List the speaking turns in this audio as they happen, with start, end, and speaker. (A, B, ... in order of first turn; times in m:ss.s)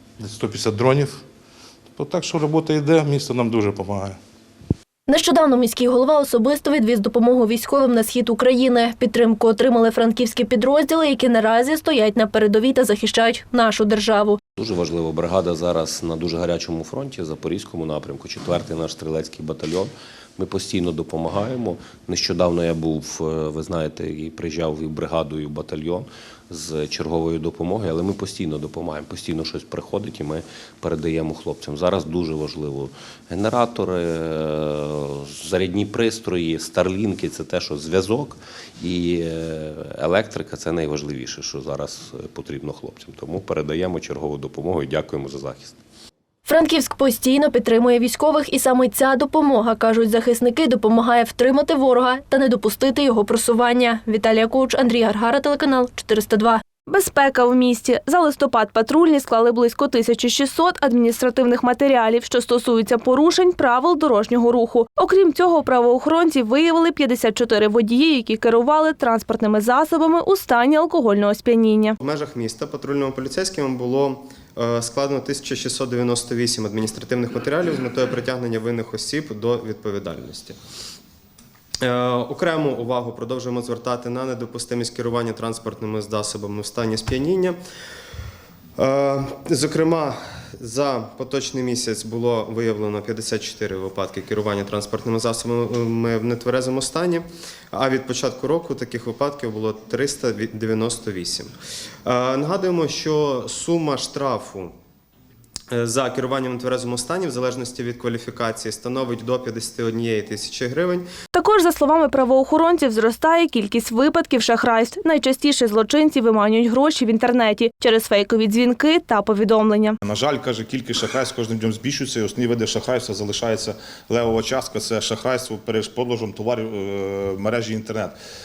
0:00.2-0:01.2 A
0:01.9-0:04.2 A
0:05.1-0:14.4 B
0:14.6-0:45.8 C
0:46.4-0:56.6 B
0:56.9-1:12.0 D
1:12.0-1:20.6 E
1:21.8-1:27.6 E
1:28.8-1:37.2 E
1:37.8-1:41.5 E
1:42.0-1:44.7 E
1:45.7-1:51.1 E
1:51.3-2:00.0 D
2:00.0-2:08.2 F